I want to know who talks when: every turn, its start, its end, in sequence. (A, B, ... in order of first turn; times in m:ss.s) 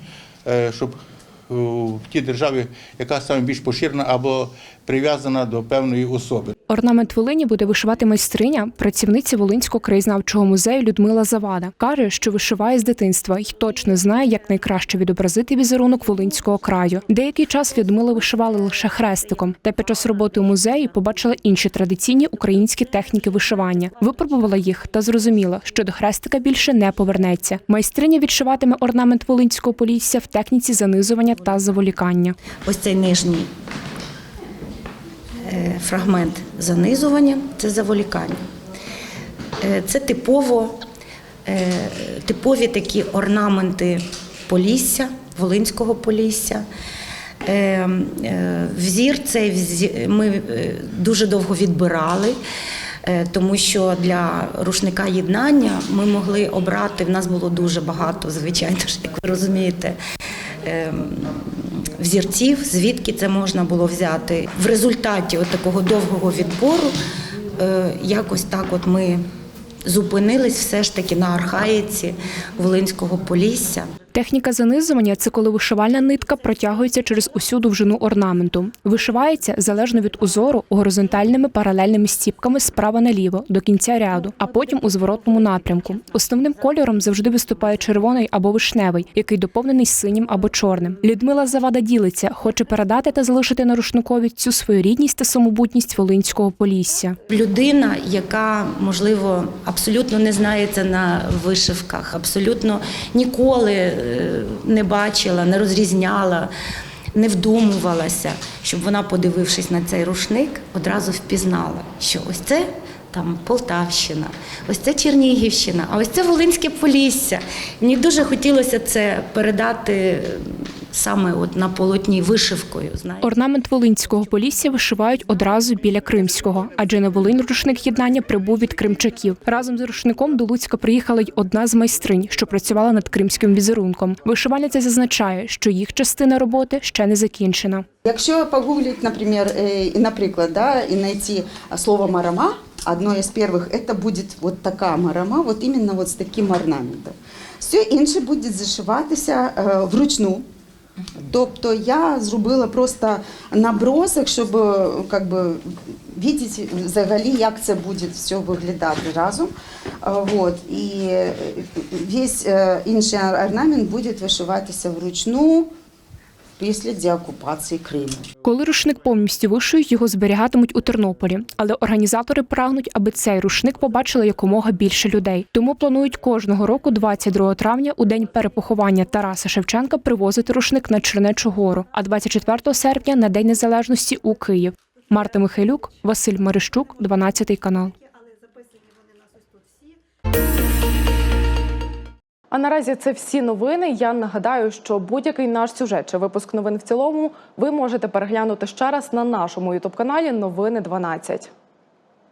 0:00.4-0:06.5 A
0:06.7-0:32.4 B
0:32.6-0:33.5 C
0:35.4-0:38.4 C
0:39.6-0:40.8 C
0:41.4-0:46.6 C
0:47.4-0:52.4 C
0:53.0-1:00.0 C
1:00.6-1:06.9 C
1:07.6-1:09.2 C
1:09.8-1:13.9 C
1:14.1-1:37.2 B
1:37.3-1:46.5 C
1:47.1-2:03.2 C
2:03.2-2:17.8 B
2:18.0-2:30.4 D
2:31.2-2:45.7 D
2:46.6-2:48.3 D
2:48.4-3:07.9 B
3:12.5-3:21.5 E